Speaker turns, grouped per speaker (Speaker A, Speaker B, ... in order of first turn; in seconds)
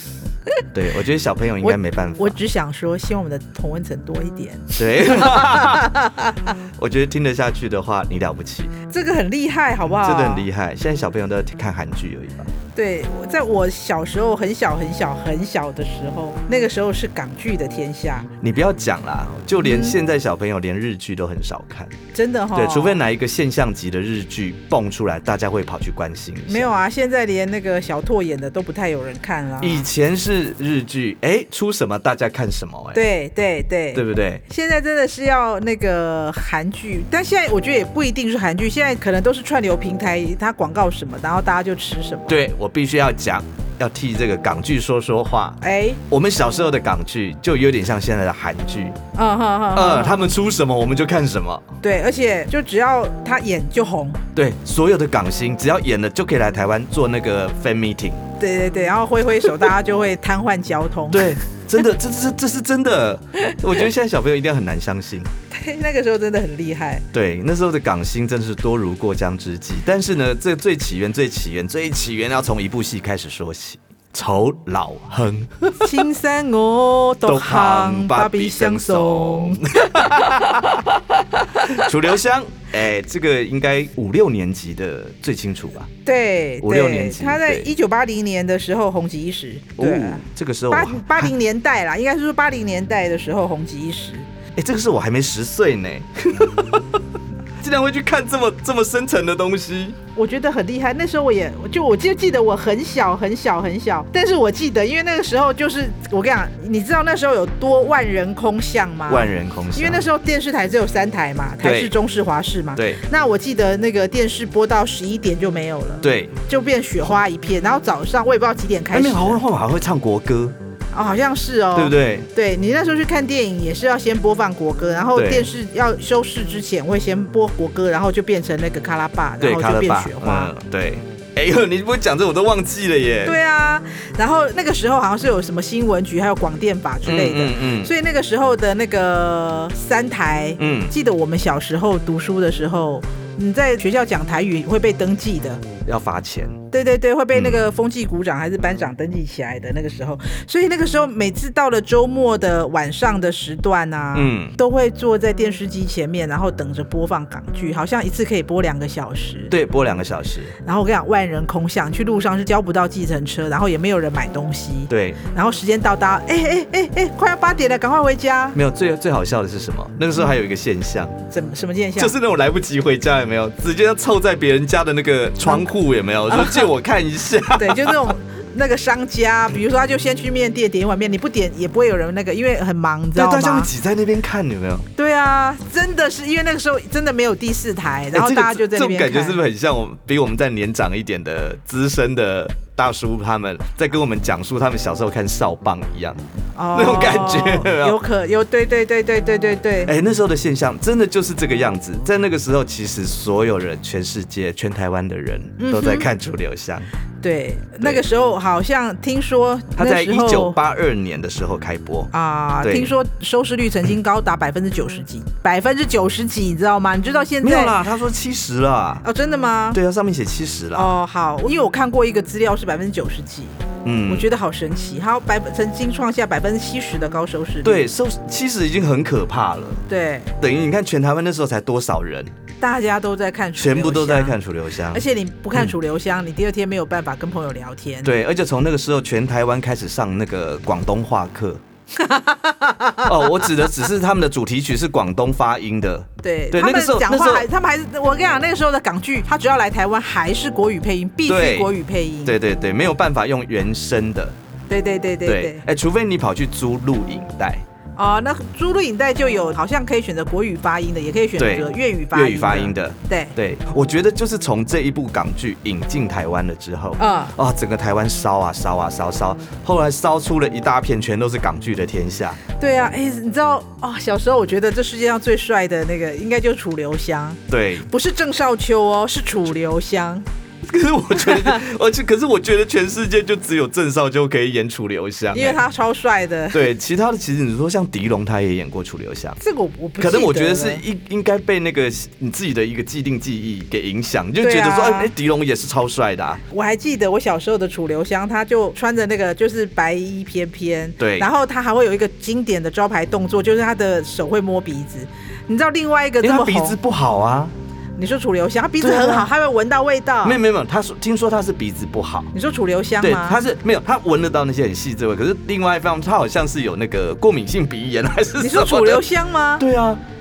Speaker A: 0.7-2.4, 4.8-5.9, 6.8-8.7, 10.0-12.5, 18.4-22.0, 22.5-26.7, 29.6-33.0, 33.9-34.4, 42.3-45.6, 46.1-49.0, 49.7-51.7, 54.4-58.2, 61.1-65.3, 67.1-76.0, 77.2-85.9, 86.6-87.7, 89.8-91.3, 94.6-97.0, 97.6-100.0, 109.1-110.0, 111.6-112.0, 112.8-113.0, 116.0-116.3, 118.9-120.6, 121.7-122.3, 125.2-125.5, 129.4-133.4, 137.1-137.9, 140.6-140.9, 145.9-146.6, 147.3-147.7, 154.1-154.6, 159.5-160.6, 164.9-165.2, 168.5-171.2, 172.0-178.1, 183.2-184.9, 188.1-196.2, 196.7-198.0, 199.8-206.9, 209.8-212.9, 217.4-219.0, 219.7-220.9, 223.8-224.3, 227.6-229.8, 230.4-232.3, 233.6-235.0, 238.0-241.6, 243.0-247.5, 251.3-251.7, 252.2-254.4, 255.2-257.6, 261.4-272.4, 277.5-277.9, 280.6-285.6, 286.5-289.4, 290.0-296.4, 301.0-301.3, 306.2-307.5, 308.8-309.3, 310.2-312.3, 313.0-319.0, 319.6-320.0
Speaker B: 1.6-6.5, 8.9-10.5, 12.8-18.3, 19.6-20.0, 22.1-23.0, 26.5-29.9, 32.9-42.4, 45.6-46.0, 49.1-50.3, 51.8-54.2, 58.4-61.4, 65.5-67.1, 75.8-80.7, 86.0-94.3, 100.2-119.4, 120.9-130.5, 133.2-145.6, 146.7-159.5, 160.6-168.6, 171.3-172.2, 176.3-176.7, 177.5-183.7, 185.0-189.4, 196.6-199.9, 205.6-206.1, 207.2-210.6, 212.1-217.8, 219.0-219.8, 220.7-227.8, 229.9-230.4, 232.6-234.3, 234.9-238.1, 242.0-243.6, 246.2-252.3, 254.7-255.6, 258.0-263.3, 267.0-267.4, 272.6-280.2, 281.3-281.6, 285.3-286.7, 289.4-290.8, 294.4-295.1, 296.5-306.8, 308.0-310.4, 312.3-313.4, 318.4-319.6